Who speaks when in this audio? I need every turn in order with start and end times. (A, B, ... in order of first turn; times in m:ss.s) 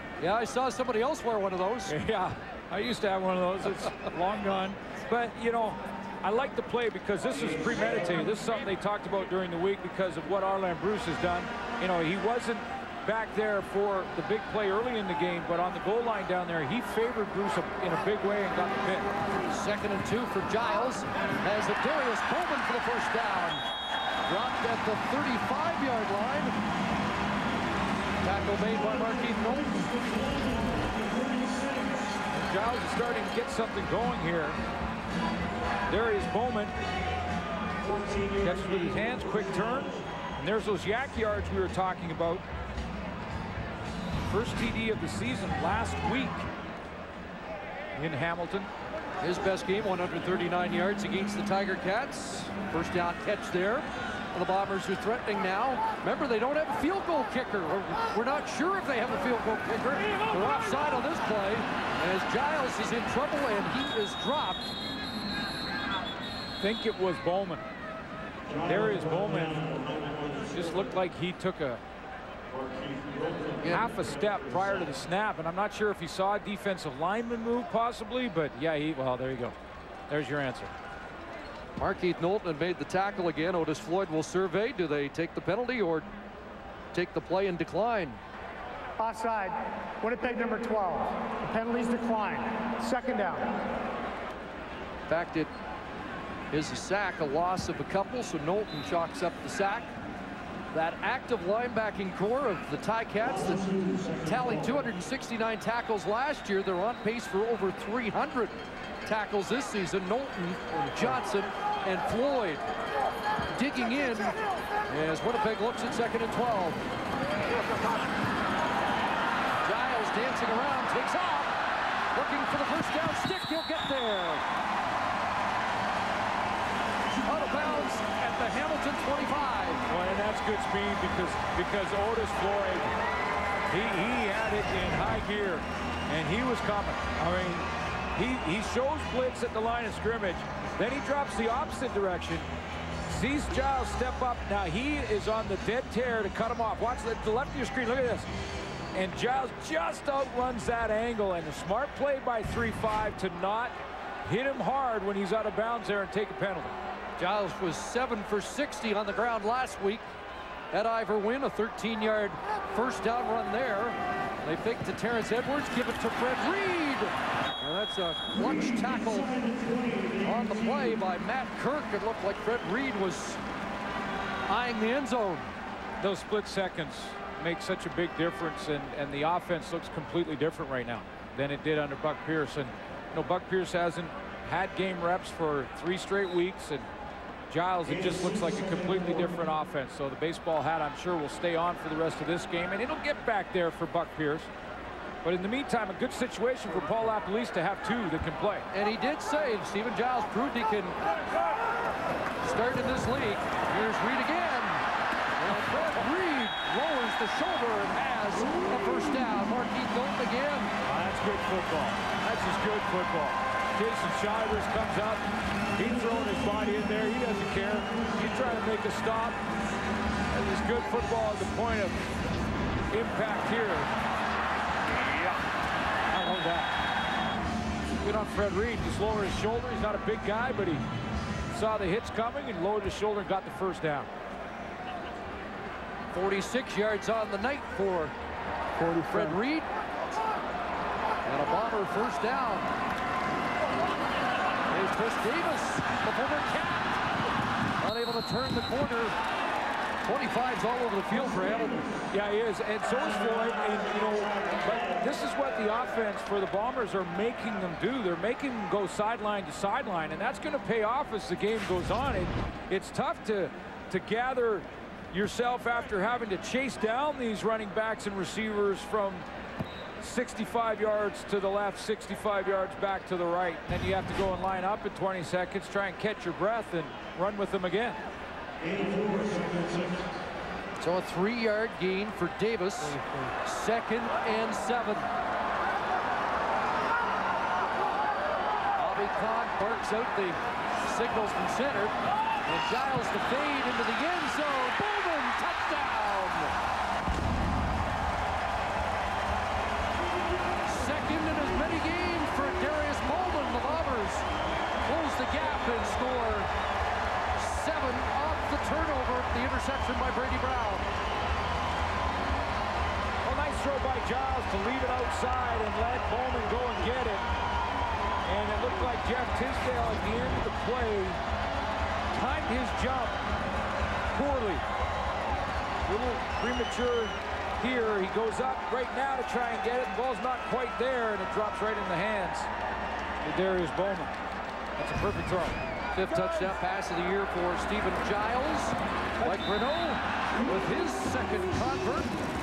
0:00.2-0:01.9 A
0:01.9-0:19.1 B
0:19.5-0:23.6 A
0:24.3-0:26.6 A
0:28.2-0:30.0 A
0:32.3-0:34.6 B
0:35.9-0:36.7 B
0:38.4-0:42.4 B
0:44.3-0:46.5 B
0:47.9-0:48.7 B
0:49.2-1:04.7 A
1:06.6-1:07.6 B
1:08.6-1:09.9 B
1:10.5-1:11.8 B
1:13.6-1:13.9 A
1:13.7-1:19.6 B
1:20.1-1:20.7 B
1:21.8-1:26.1 A
1:26.9-1:28.2 A
1:29.0-1:33.6 C
1:35.1-1:35.5 A
1:36.5-1:39.9 A
1:40.7-1:52.6 A
1:53.5-1:56.8 A
1:59.6-2:01.5 A
2:02.1-2:04.4 A
2:07.2-2:09.8 A
2:09.9-2:12.9 B
2:13.7-2:22.5 B
2:23.1-2:28.3 B
2:28.9-2:36.8 B
2:37.2-2:40.1 A
2:40.7-2:53.4 A
2:54.5-2:55.5 A
2:56.0-3:06.9 B
3:07.5-3:14.5 B
3:15.2-3:18.7 B
3:18.7-3:21.0 A
3:22.4-3:24.8 A
3:25.4-3:30.7 A
3:30.8-3:35.2 B
3:35.8-3:39.4 B
3:40.3-3:42.0 B
3:42.9-3:43.9 B
3:44.9-3:45.4 B
3:46.1-3:46.7 B
3:48.0-3:50.8 B
3:51.5-3:54.1 B
3:56.1-3:58.1 A
3:58.9-3:59.7 A
4:01.2-4:02.7 A
4:04.7-4:07.0 A
4:07.8-4:09.2 A
4:10.0-4:11.8 A
4:12.1-4:29.3 B
4:30.0-4:38.0 B
4:40.8-4:45.1 A
4:48.8-4:56.5 A
5:00.7-5:04.3 A
5:04.8-5:06.5 A
5:07.4-5:10.9 A
5:13.2-5:17.3 B
5:18.2-5:21.2 B
5:22.1-5:23.2 B
5:24.1-5:24.6 B
5:25.9-5:32.5 B
5:33.2-5:34.2 B
5:34.8-5:35.6 B
5:35.9-5:42.2 A